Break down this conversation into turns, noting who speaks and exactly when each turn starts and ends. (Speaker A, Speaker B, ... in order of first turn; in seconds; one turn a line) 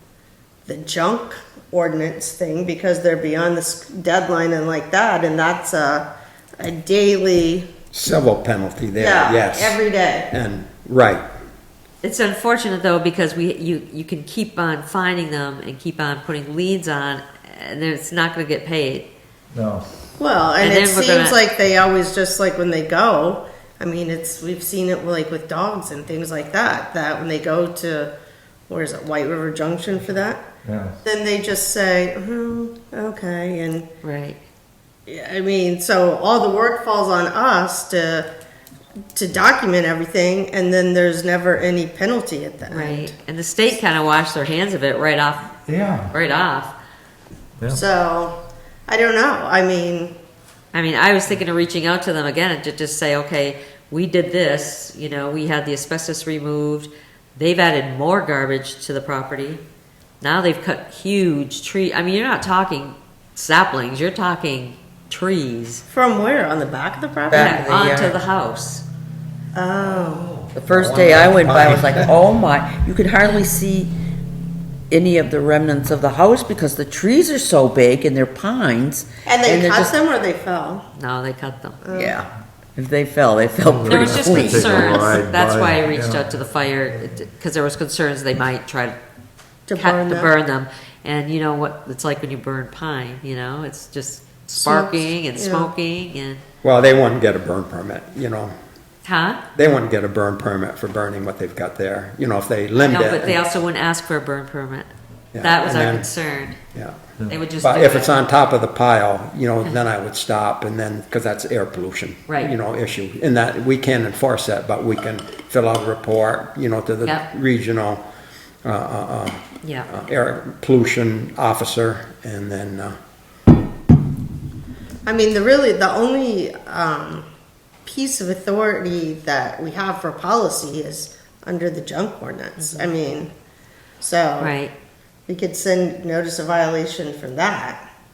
Speaker A: 0.7-6.1
Speaker A: 6.6-7.7
Speaker B: 7.9-11.2
Speaker A: 9.0-10.3
Speaker C: 12.0-19.1
Speaker D: 19.5-19.9
Speaker A: 20.2-28.1
Speaker C: 20.6-21.4
Speaker A: 28.7-30.4
Speaker D: 30.6-31.0
Speaker A: 31.0-33.9
Speaker C: 34.0-34.4
Speaker A: 35.1-38.3
Speaker A: 39.1-43.1
Speaker C: 42.7-45.6
Speaker D: 45.7-46.1
Speaker C: 46.1-46.7
Speaker A: 47.7-50.1
Speaker C: 50.7-59.6
Speaker C: 60.2-65.8
Speaker A: 65.9-67.6
Speaker E: 67.3-68.2
Speaker C: 67.3-68.8
Speaker A: 69.5-70.3
Speaker B: 70.4-72.1
Speaker E: 70.5-73.9
Speaker E: 74.9-79.9
Speaker A: 79.2-80.8
Speaker C: 80.9-81.8
Speaker A: 81.8-82.2
Speaker E: 81.9-85.1
Speaker D: 83.7-87.1
Speaker C: 83.9-89.0
Speaker A: 89.7-90.3
Speaker C: 89.8-96.4
Speaker A: 94.5-95.7
Speaker B: 96.6-98.5
Speaker C: 99.0-99.4
Speaker B: 99.5-103.4
Speaker C: 102.8-104.9
Speaker B: 105.3-106.1
Speaker C: 105.4-106.6
Speaker B: 106.7-107.1
Speaker C: 107.3-108.2
Speaker B: 107.6-118.0
Speaker C: 112.3-112.5
Speaker B: 118.6-123.0
Speaker A: 125.0-127.2
Speaker A: 127.8-133.3
Speaker C: 132.6-132.9
Speaker A: 134.0-134.6
Speaker C: 134.4-134.7
Speaker A: 135.3-137.8